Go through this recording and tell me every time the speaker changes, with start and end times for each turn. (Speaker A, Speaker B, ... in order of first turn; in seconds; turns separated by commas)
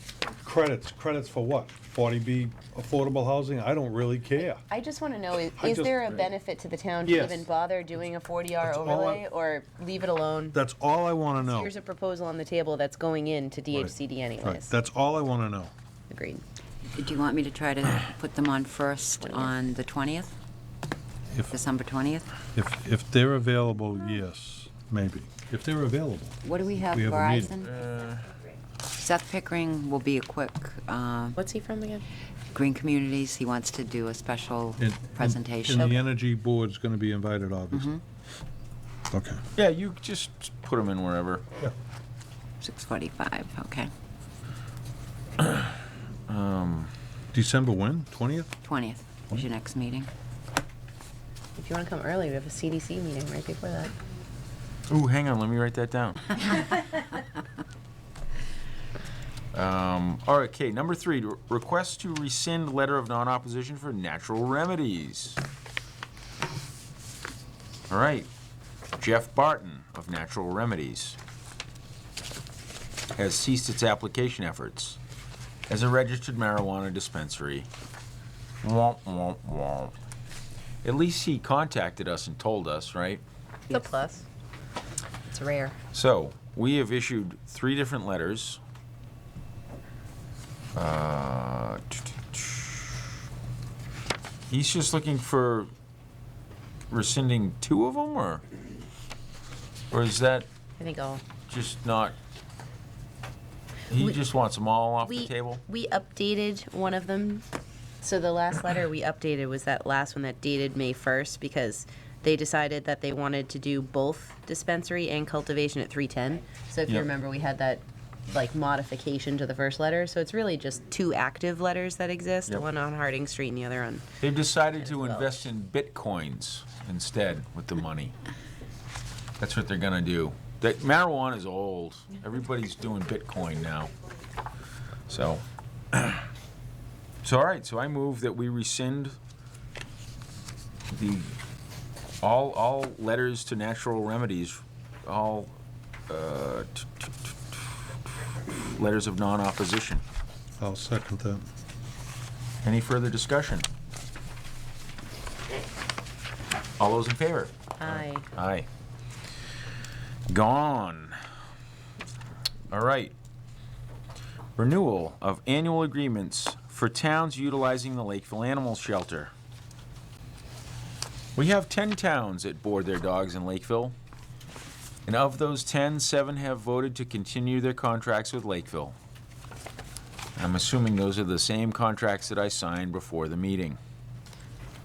Speaker A: 0.4-4.6, Speaker B: 4.4-10.6, Speaker A: 5.6-6.2, Speaker A: 7.0-7.5, Speaker A: 8.6-9.2, Speaker A: 10.5-11.7, Speaker B: 11.4-14.7, Speaker A: 13.7-15.7, Speaker B: 16.1-16.4, Speaker C: 16.9-20.4, Speaker C: 21.5-22.3, Speaker A: 22.6-27.5, Speaker C: 26.4-27.8, Speaker D: 27.6-28.3, Speaker C: 29.0-31.4, Speaker B: 31.4-32.0, Speaker C: 32.5-35.9, Speaker A: 34.8-38.0, Speaker B: 35.7-36.0, Speaker C: 37.7-38.0, Speaker A: 39.1-39.4, Speaker D: 39.5-41.4, Speaker C: 42.6-43.9, Speaker D: 45.4-45.8, Speaker D: 46.3-46.9, Speaker A: 47.3-48.5, Speaker C: 48.6-50.1, Speaker B: 51.6-53.9, Speaker D: 54.9-56.6, Speaker D: 59.5-65.4, Speaker D: 67.9-68.3, Speaker D: 69.0-71.2, Speaker D: 73.1-75.0, Speaker D: 75.7-77.7, Speaker D: 78.6-80.0, Speaker D: 80.8-83.9, Speaker B: 83.7-84.2, Speaker B: 85.2-85.8, Speaker D: 85.9-88.6, Speaker D: 90.8-92.9, Speaker D: 94.5-95.7, Speaker D: 96.9-98.4, Speaker D: 99.9-100.5, Speaker B: 100.8-101.2, Speaker D: 101.5-102.2, Speaker D: 103.9-105.6, Speaker B: 105.0-107.5, Speaker B: 108.0-124.0, Speaker D: 124.2-128.1, Speaker B: 124.8-125.4, Speaker D: 129.4-133.9, Speaker D: 135.1-136.3, Speaker D: 137.2-139.2, Speaker D: 140.9-141.3, Speaker D: 142.2-145.6, Speaker D: 146.1-150.0, Speaker A: 150.6-151.5, Speaker D: 152.6-153.7, Speaker D: 156.8-158.7, Speaker B: 157.8-158.3, Speaker D: 160.3-161.2, Speaker D: 162.7-163.1, Speaker D: 164.6-169.3, Speaker D: 171.4-173.9, Speaker D: 175.1-178.9, Speaker D: 180.4-183.8